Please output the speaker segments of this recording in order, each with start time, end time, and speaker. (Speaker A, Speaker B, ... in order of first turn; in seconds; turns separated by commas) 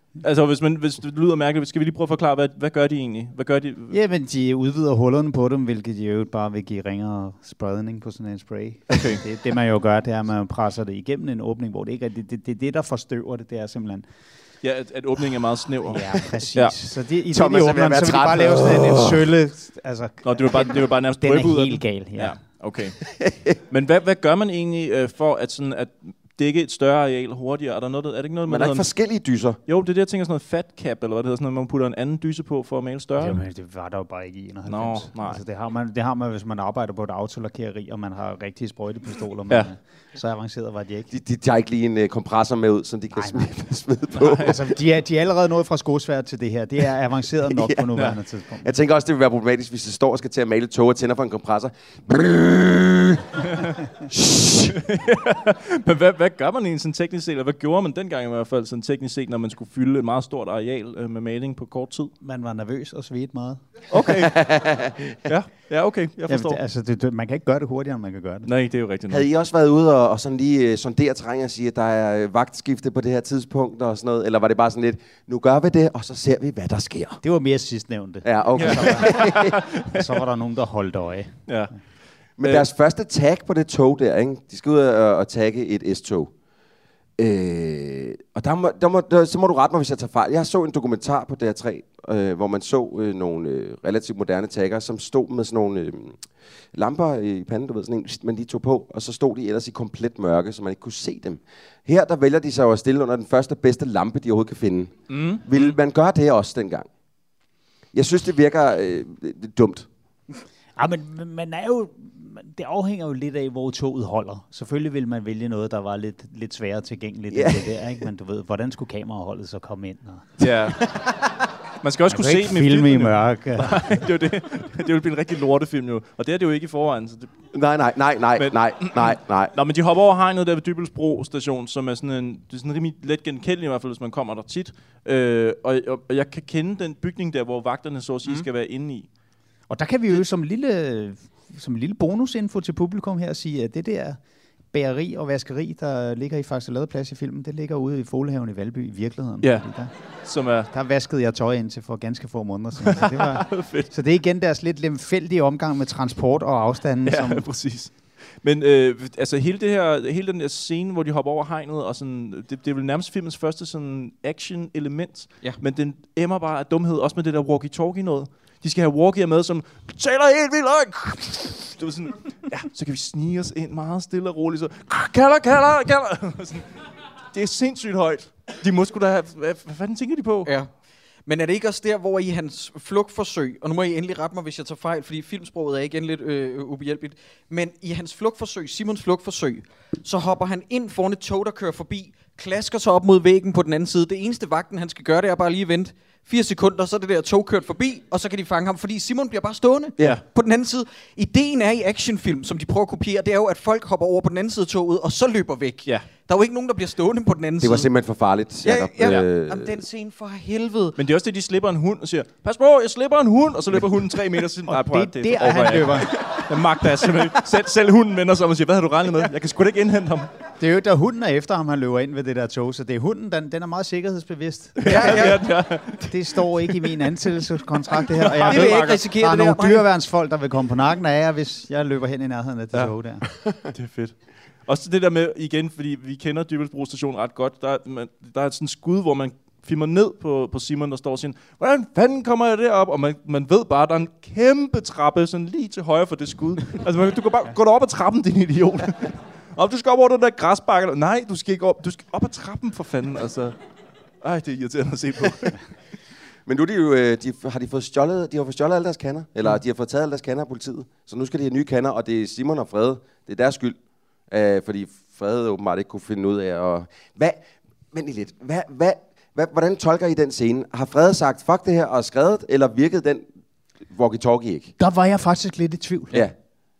Speaker A: 0.2-4.0, Speaker B: 3.9-14.0, Speaker A: 8.9-9.2, Speaker A: 14.6-16.7, Speaker B: 15.9-22.4, Speaker C: 17.3-19.2, Speaker A: 20.2-23.0, Speaker A: 23.7-28.9, Speaker C: 28.5-29.6, Speaker A: 29.7-33.4, Speaker B: 33.2-41.1, Speaker A: 34.7-35.4, Speaker C: 41.1-44.6, Speaker B: 43.1-43.5, Speaker A: 44.2-44.6, Speaker B: 44.2-48.7, Speaker C: 47.5-47.8, Speaker C: 48.6-54.8, Speaker A: 54.7-62.1, Speaker B: 62.2-63.6, Speaker A: 63.9-64.4, Speaker C: 64.1-65.0, Speaker A: 65.2-66.6, Speaker B: 66.3-68.5, Speaker A: 68.5-69.2, Speaker C: 69.1-77.2, Speaker B: 77.2-81.5, Speaker C: 78.2-79.6, Speaker A: 78.5-80.0, Speaker A: 81.5-81.7, Speaker C: 82.4-86.3, Speaker A: 82.4-82.7, Speaker C: 87.2-96.2, Speaker C: 96.7-106.9, Speaker A: 105.1-105.8, Speaker C: 107.9-109.8, Speaker B: 110.8-121.2, Speaker C: 117.3-117.8, Speaker A: 120.4-121.0, Speaker A: 121.8-127.3, Speaker B: 122.1-124.0, Speaker C: 127.5-129.5, Speaker A: 128.3-139.1, Speaker B: 139.7-144.2, Speaker B: 144.7-149.9, Speaker A: 149.4-149.7, Speaker A: 150.2-150.7, Speaker B: 150.7-157.5, Speaker A: 152.8-153.9, Speaker A: 157.0-176.7, Speaker A: 177.3-180.5, Speaker D: 180.4-180.7, Speaker D: 181.2-207.9, Speaker C: 207.6-209.7, Speaker D: 208.6-211.0, Speaker A: 210.9-220.3, Speaker B: 214.7-216.2, Speaker B: 220.6-233.2, Speaker A: 224.8-226.9, Speaker D: 224.8-225.3, Speaker A: 227.9-229.0, Speaker D: 228.4-229.8, Speaker A: 233.7-234.1, Speaker A: 234.7-253.5, Speaker A: 254.2-255.6, Speaker C: 256.5-263.8, Speaker C: 264.3-273.2, Speaker C: 273.9-274.7, Speaker B: 274.8-276.3